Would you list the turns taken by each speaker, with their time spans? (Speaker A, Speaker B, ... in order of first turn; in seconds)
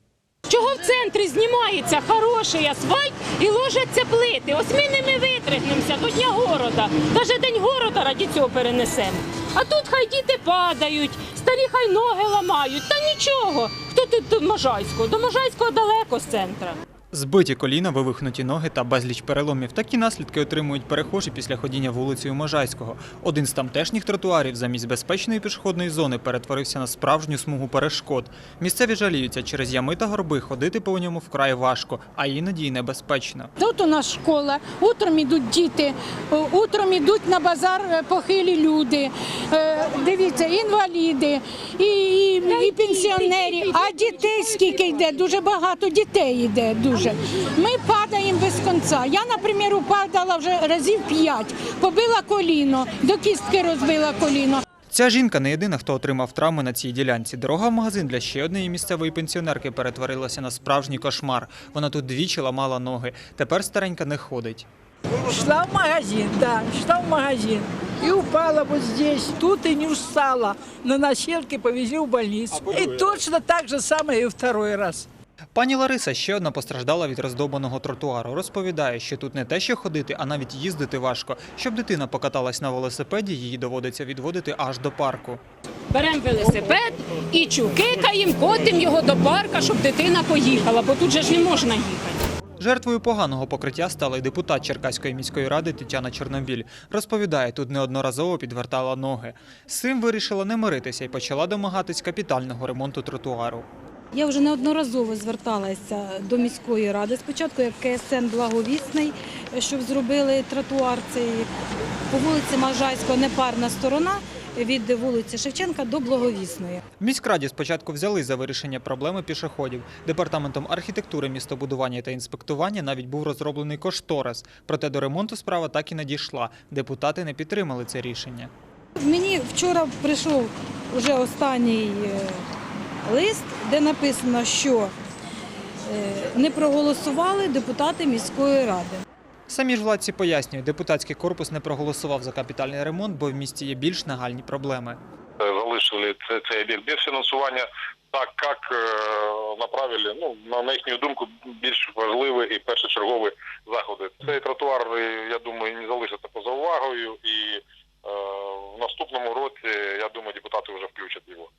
Speaker A: 0.5-16.8, 42.6-43.1, 85.9-92.2
Speaker B: 17.1-33.5, 54.9-64.7, 75.5-85.4, 92.6-103.7, 117.0-128.5, 139.5-145.0
Speaker C: 33.6-54.6
Speaker D: 65.2-75.0
Speaker E: 104.1-111.5, 112.1-116.8, 129.0-132.4, 133.1-134.9, 135.9-139.0
Speaker F: 145.4-161.5